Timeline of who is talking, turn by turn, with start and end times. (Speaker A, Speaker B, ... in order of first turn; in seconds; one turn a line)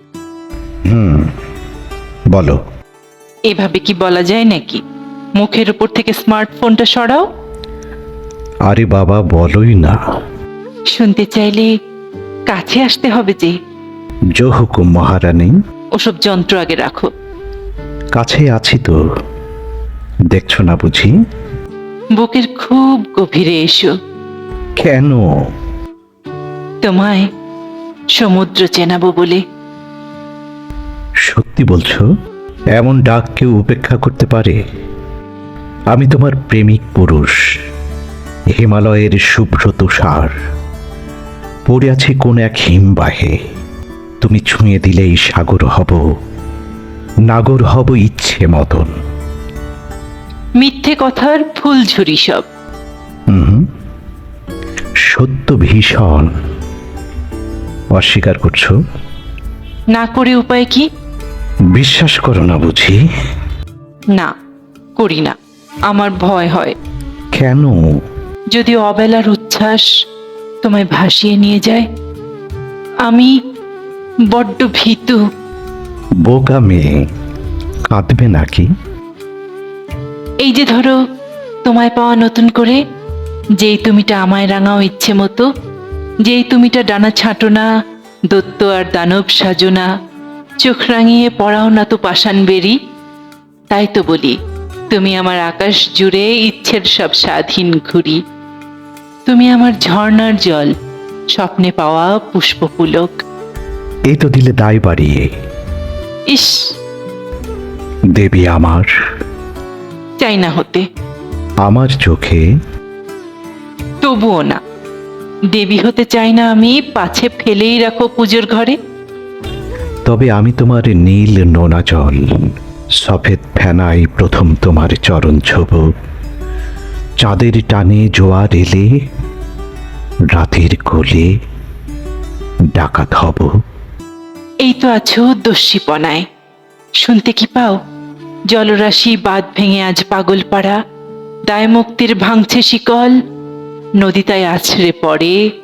Speaker A: 0.9-1.3
Speaker A: 2.3-2.6
Speaker B: 3.5-4.8
Speaker B: 5.4-7.3
Speaker A: 8.7-10.0
Speaker B: 10.9-11.7
Speaker B: 12.5-13.6
Speaker A: 14.4-15.6
Speaker B: 15.9-17.1
Speaker A: 18.1-19.0
Speaker A: 20.3-21.1
Speaker B: 22.1-23.9
Speaker A: 24.8-25.3
Speaker B: 26.8-27.3
Speaker B: 28.1-29.4
Speaker A: 31.2-32.0
Speaker A: 32.8-34.6
Speaker A: 35.9-37.4
Speaker A: 38.5-40.3
Speaker A: 41.7-43.4
Speaker A: 44.2-46.0
Speaker A: 47.3-48.9
Speaker B: 50.6-52.4
Speaker A: 53.3-53.6
Speaker A: 55.1-56.3
Speaker A: 57.9-58.7
Speaker B: 59.9-60.9
Speaker A: 61.7-63.0
Speaker B: 65.0-65.4
Speaker B: 65.9-66.8
Speaker A: 67.3-67.8
Speaker B: 68.5-69.9
Speaker B: 70.6-71.9
Speaker B: 73.0-73.4
Speaker B: 74.3-75.2
Speaker A: 76.2-77.0
Speaker A: 77.9-78.7
Speaker B: 80.4-81.0
Speaker B: 81.6-82.8
Speaker B: 83.6-85.5
Speaker B: 86.2-87.7
Speaker B: 88.3-89.9
Speaker B: 90.6-92.8
Speaker B: 93.7-94.4
Speaker B: 94.9-98.2
Speaker B: 99.3-100.7
Speaker B: 101.3-103.2
Speaker A: 104.1-105.3
Speaker B: 106.3-106.7
Speaker A: 108.1-108.9
Speaker B: 110.2-110.9
Speaker A: 111.6-112.4
Speaker B: 114.0-114.6
Speaker B: 115.5-118.8
Speaker A: 120.1-122.3
Speaker A: 123.0-125.9
Speaker A: 127.2-128.9
Speaker A: 130.3-131.3
Speaker A: 132.7-133.5
Speaker B: 134.6-136.3
Speaker B: 137.0-137.8
Speaker B: 138.5-140.8
Speaker B: 141.5-143.2
Speaker B: 144.0-145.4